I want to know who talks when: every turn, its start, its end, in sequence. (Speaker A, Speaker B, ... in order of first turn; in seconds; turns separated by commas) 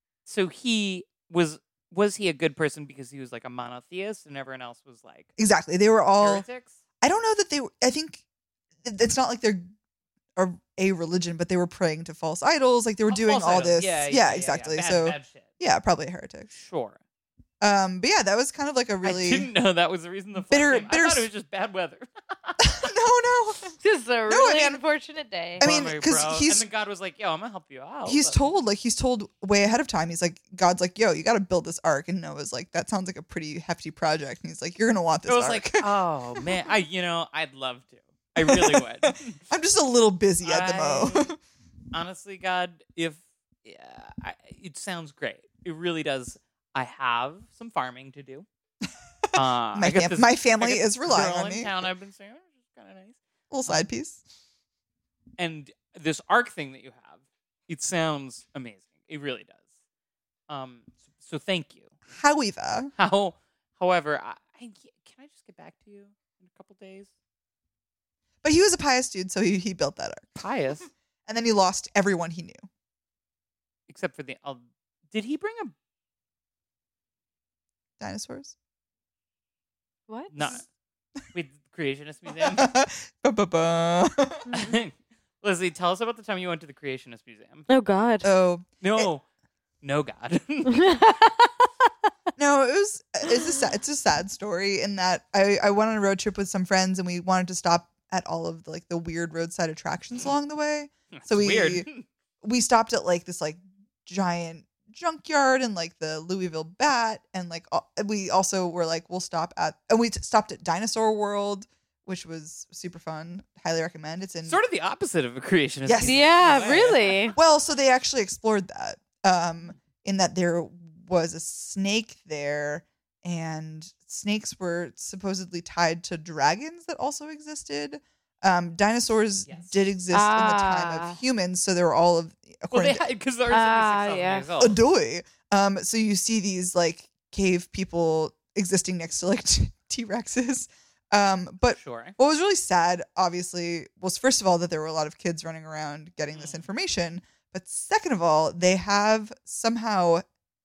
Speaker A: 0.2-5.3, Speaker B: 5.4-6.5, Speaker A: 6.2-6.8, Speaker B: 7.0-8.2, Speaker B: 8.8-9.7, Speaker B: 10.3-16.5, Speaker A: 13.1-15.5, Speaker A: 16.5-17.0, Speaker B: 17.6-19.5, Speaker A: 19.0-22.9, Speaker B: 20.4-21.3, Speaker B: 22.6-23.7, Speaker C: 23.8-25.7, Speaker B: 24.3-24.8, Speaker B: 25.6-26.6, Speaker A: 25.6-28.5, Speaker B: 28.1-36.5, Speaker A: 35.2-39.4, Speaker B: 38.4-41.4, Speaker A: 40.4-41.3, Speaker A: 41.9-48.5, Speaker B: 49.2-51.7, Speaker A: 49.3-53.9, Speaker B: 53.5-54.2, Speaker A: 55.4-59.7, Speaker A: 60.5-61.9, Speaker B: 62.1-62.9, Speaker A: 63.0-67.1, Speaker B: 68.4-70.4, Speaker A: 70.4-70.9, Speaker B: 71.2-72.7, Speaker A: 73.9-75.7, Speaker B: 78.0-78.5, Speaker C: 80.1-80.6, Speaker A: 80.3-80.6, Speaker A: 81.3-82.7, Speaker B: 82.4-84.5, Speaker A: 84.5-87.7, Speaker C: 87.7-88.3, Speaker B: 88.2-89.1, Speaker A: 88.8-89.2, Speaker A: 89.8-90.8, Speaker C: 90.7-91.7, Speaker B: 92.4-101.9, Speaker A: 101.1-102.0, Speaker B: 102.4-114.6, Speaker A: 114.5-117.3, Speaker B: 115.8-116.2, Speaker C: 116.0-117.3, Speaker B: 117.3-133.0, Speaker A: 129.4-129.7, Speaker C: 130.1-131.2, Speaker A: 132.7-134.8, Speaker C: 133.5-134.5, Speaker B: 134.6-150.2, Speaker A: 141.8-142.2, Speaker A: 146.3-146.6